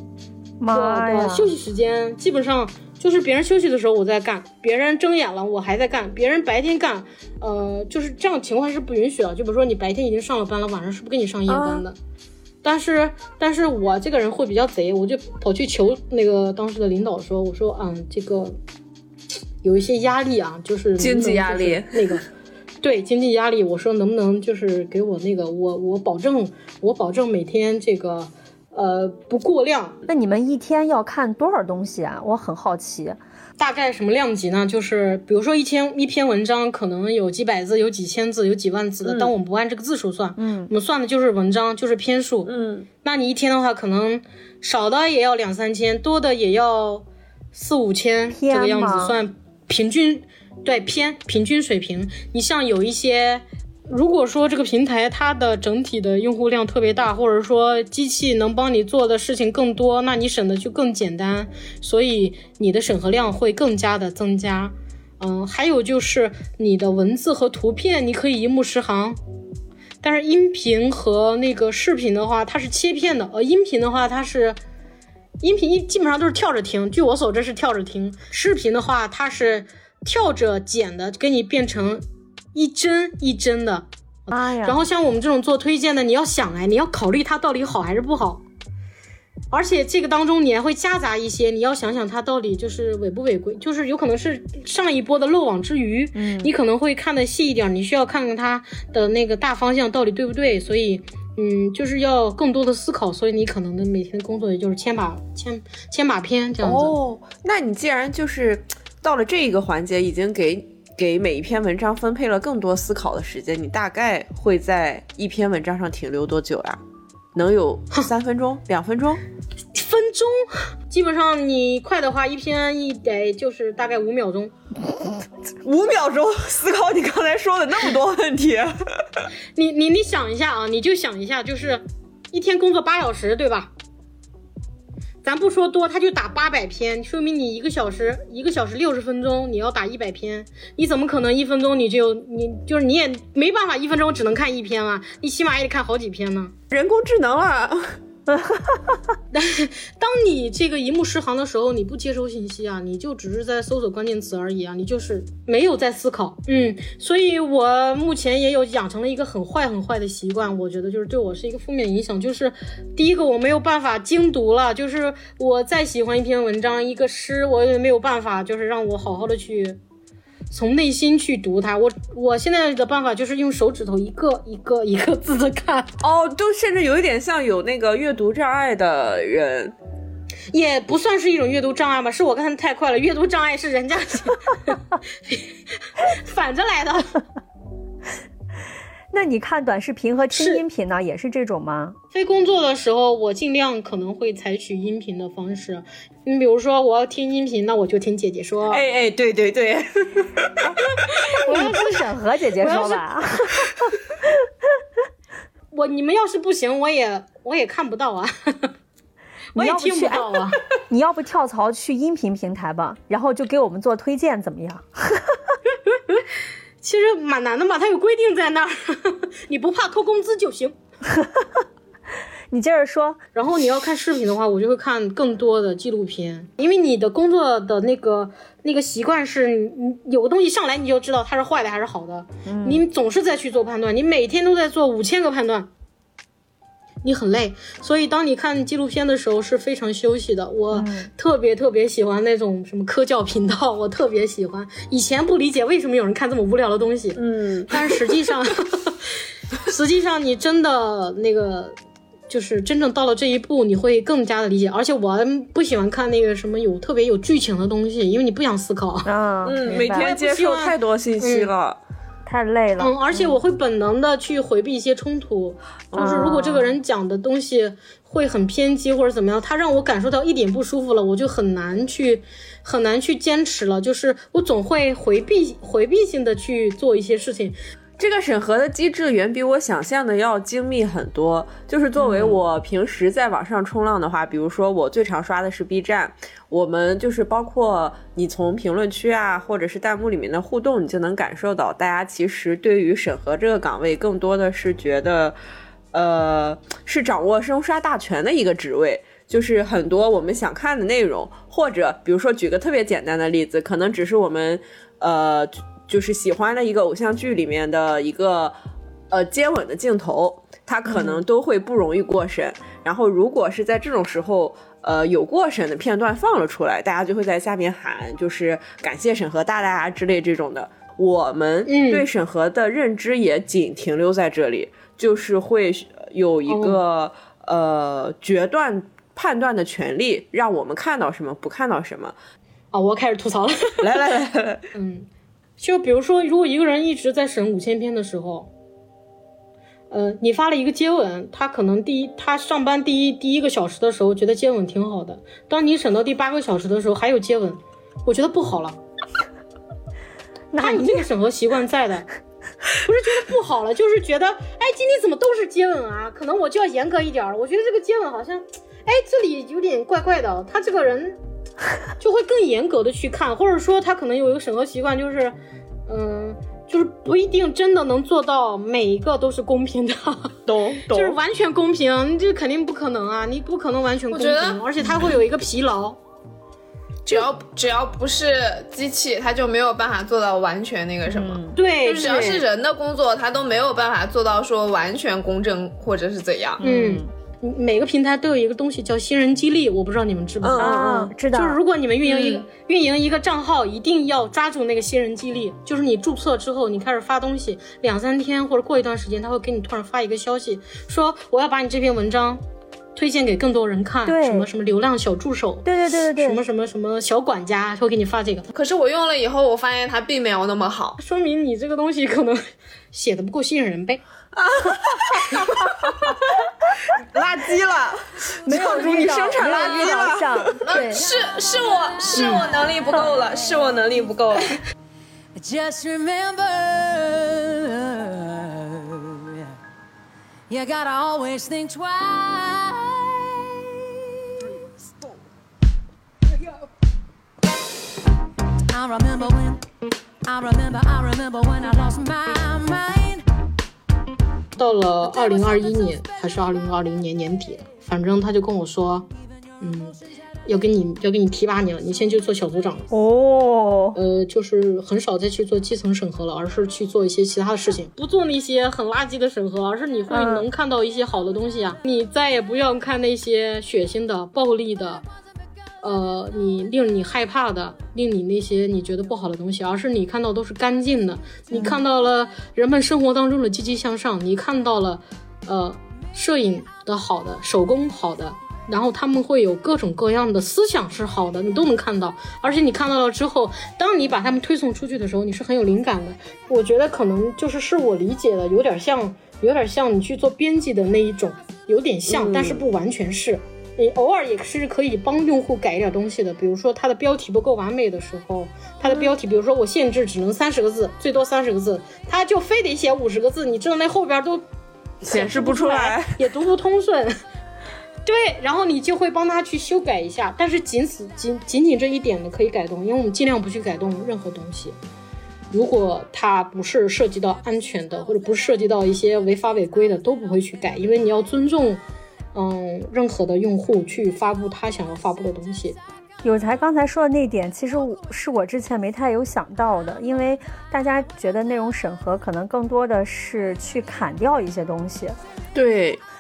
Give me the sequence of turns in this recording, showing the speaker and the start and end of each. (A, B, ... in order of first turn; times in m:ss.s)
0:00.6-0:01.5 A
0:00.7-0:12.0 B
0:11.5-0:11.8 C
0:12.6-0:18.6 B
0:19.6-0:22.2 B
0:21.0-0:21.8 C
0:22.8-0:30.0 B
0:30.1-0:33.2 A
0:33.6-0:42.5 B
0:39.0-0:39.3 C
0:40.4-0:40.7 A
0:42.5-0:42.9 C
0:43.0-1:09.2 B
0:48.3-0:49.2 A
1:10.0-1:14.6 B
1:15.4-1:22.0 B
1:22.5-1:23.9 B
1:24.3-1:24.8 A
1:24.6-1:28.4 B
1:29.5-1:47.0 B
1:36.2-1:36.5 A
1:46.6-1:56.8 C
1:57.4-1:59.2 C
1:59.8-2:04.5 B
2:05.6-2:09.2 C
2:09.6-2:13.7 B
2:15.2-2:26.6 B
2:26.7-2:28.0 C
2:28.3-2:29.0 A
2:29.3-2:49.8 B
2:50.5-2:55.9 B
2:56.0-2:59.8 C
3:00.5-3:04.8 B
3:05.3-3:07.2 B
3:09.1-3:12.0 A
3:10.3-3:10.6 B
3:12.1-3:18.8 B
3:18.7-3:20.5 C
3:21.4-3:22.0 B
3:21.5-3:23.7 A
3:22.6-3:23.0 B
3:25.7-3:28.7 B
3:29.5-3:35.4 A
3:29.6-3:30.6 B
3:35.9-3:36.2 B
3:36.8-3:40.8 B
3:41.1-3:41.6 A
3:42.5-3:43.2 A
3:43.4-3:55.7 B
3:52.5-3:52.8 A
3:57.0-4:09.0 B
4:00.7-4:01.1 A
4:07.2-4:08.0 C
4:09.6-4:11.8 B
4:12.3-4:19.1 B
4:19.0-4:20.1 A
4:19.4-4:21.8 C
4:19.6-4:21.5 B
4:22.2-4:23.3 A
4:22.8-4:37.6 B
4:25.9-4:26.4 C
4:26.0-4:26.7 A
4:38.0-4:55.4 C
4:42.0-4:42.4 B
4:55.9-5:08.6 C
5:09.1-5:32.2 C
5:10.9-5:11.2 B
5:21.7-5:22.0 B
5:26.5-5:26.8 B
5:32.7-5:34.0 B
5:33.8-5:34.6 C
5:34.7-5:35.1 B
5:35.6-5:38.5 B
5:39.9-5:48.8 B
5:50.5-5:51.0 A
5:50.6-5:52.0 B
5:52.8-6:01.2 B
6:02.0-6:05.4 B
6:05.9-6:10.4 B
6:10.5-6:11.2 C
6:10.9-6:16.0 B
6:14.1-6:14.6 D
6:17.0-6:26.6 D
6:21.1-6:21.6 A
6:21.5-6:22.4 B
6:26.6-6:27.1 A
6:26.6-6:42.4 B
6:30.4-6:30.9 C
6:30.6-6:31.6 A
6:32.0-6:32.4 D
6:43.0-6:48.5 B
6:44.0-6:44.5 A
6:45.6-6:46.4 A
6:48.5-6:51.0 D
6:51.0-6:52.4 B
6:52.9-6:54.0 B
6:54.4-6:55.3 C
6:57.1-7:00.6 C
6:58.4-7:01.0 A
6:58.6-7:00.1 D
7:00.6-7:04.6 D
7:02.2-7:02.5 B
7:05.4-7:09.5 E
7:10.5-7:13.2 E
7:18.7-7:19.6 E
7:20.2-7:23.2 E
7:24.6-7:29.1 B
7:29.6-7:32.9 B
7:32.9-7:34.0 A
7:34.0-7:45.0 B
7:40.1-7:40.5 A
7:45.8-8:24.4 B
7:51.5-7:51.8 A
8:12.1-8:12.6 C
8:18.9-8:19.1 C
8:25.0-8:26.1 C
8:25.0-8:27.1 B
8:28.0-8:34.8 B
8:35.5-8:41.8 B
8:42.4-8:45.8 B
8:46.2-8:55.2 A
8:55.5-8:56.0 C